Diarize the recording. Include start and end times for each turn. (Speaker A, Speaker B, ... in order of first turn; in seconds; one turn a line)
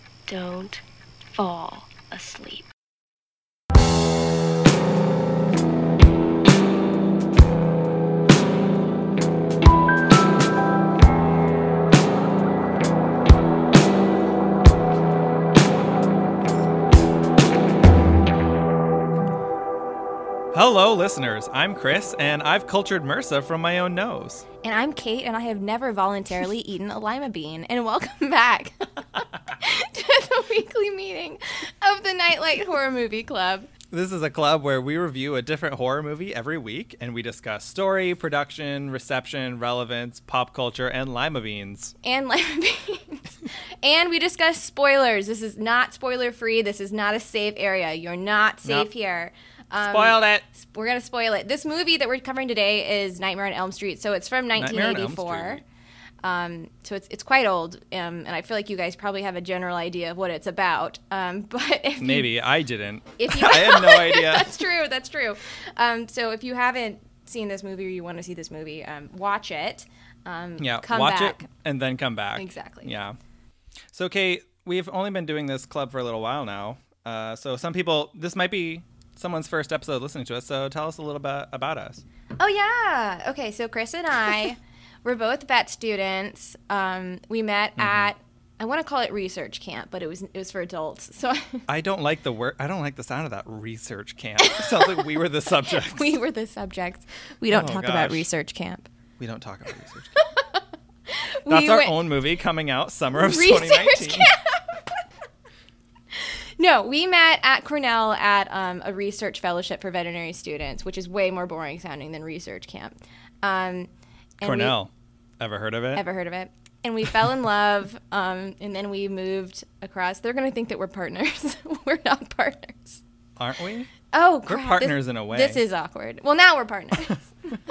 Speaker A: 0.3-0.8
Speaker A: 1.3-2.7
Speaker B: 20.5-24.4
Speaker C: 24.6-28.9
Speaker C: 29.5-33.7
Speaker B: 33.9-41.9
Speaker C: 42.0-55.6
Speaker B: 48.6-48.9
Speaker B: 49.8-50.5
Speaker B: 54.6-55.6
Speaker C: 56.2-62.3
Speaker B: 62.0-64.7
Speaker C: 63.2-71.5
Speaker B: 70.6-73.2
Speaker C: 72.4-72.9
Speaker B: 73.9-82.0
Speaker C: 82.4-91.7
Speaker B: 87.8-88.1
Speaker B: 91.7-96.2
Speaker C: 94.4-98.9
Speaker B: 97.5-98.3
Speaker B: 99.2-100.2
Speaker C: 100.2-102.0
Speaker B: 101.5-104.3
Speaker C: 103.1-104.8
Speaker C: 106.2-113.9
Speaker C: 114.4-114.8
Speaker B: 114.4-116.0
Speaker C: 116.0-123.0
Speaker B: 123.4-123.9
Speaker C: 124.1-127.3
Speaker B: 124.5-125.6